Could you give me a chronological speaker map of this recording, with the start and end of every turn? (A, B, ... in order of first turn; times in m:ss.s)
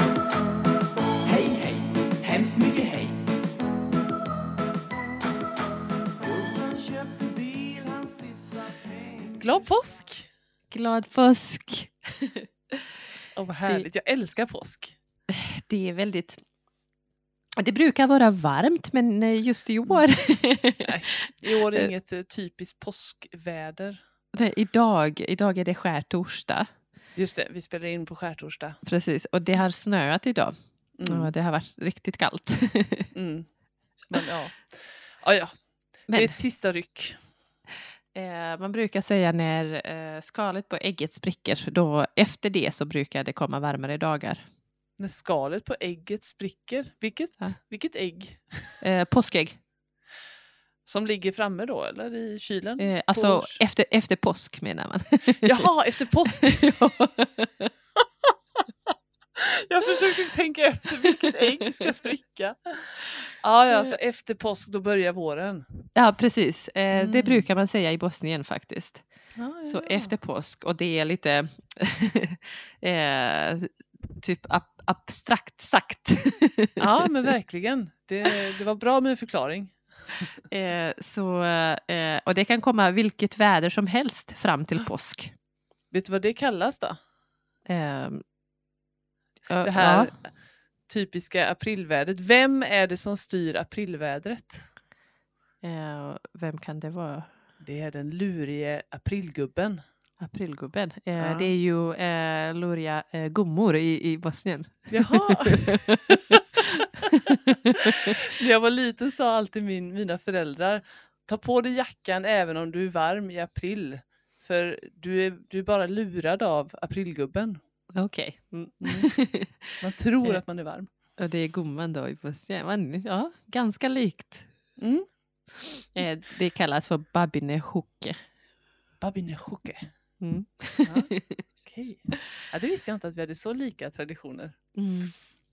0:00.3-0:10.0 A
0:09.4-0:10.3 B
0:10.7-0:12.5 C
0:13.4-0:15.0 B
0:15.3-0:16.4 C
0:17.6-0:21.9 C
0:20.8-0:24.0 B
0:24.3-0:26.7 C
0:27.2-0:28.8 B
0:28.8-0:33.1 C
0:31.0-0:31.3 B
0:33.1-0:33.5 B
0:34.1-0:37.2 B
0:36.1-0:36.4 C
0:38.1-0:44.4 C
0:45.0-0:48.7 B
0:48.8-0:49.6 C
0:50.9-0:53.6 B
0:52.8-0:55.7 C
0:55.4-0:56.8 B
0:56.3-0:57.7 C
0:58.2-1:05.7 B
1:05.9-1:09.0 C
1:06.9-1:07.4 B
1:09.4-1:10.1 B
1:09.6-1:16.8 C
1:16.8-1:19.8 B
1:20.5-1:25.3 C
1:25.9-1:27.0 B
1:27.7-1:28.2 C
1:29.5-1:30.1 C
1:29.6-1:30.3 B
1:30.9-1:34.7 B
1:35.6-1:37.3 C
1:37.6-1:39.8 B
1:40.2-1:46.0 C
1:41.2-1:41.5 B
1:44.9-1:57.6 B
1:47.3-1:48.1 C
1:57.9-2:00.4 C
1:58.8-1:59.1 B
1:59.8-2:00.9 B
2:01.2-2:04.5 C
2:04.8-2:05.0 B
2:05.9-2:08.2 C
2:09.0-2:09.9 B
2:10.2-2:11.4 C
2:10.8-2:11.1 B
2:11.6-2:14.6 B
2:14.8-2:15.1 C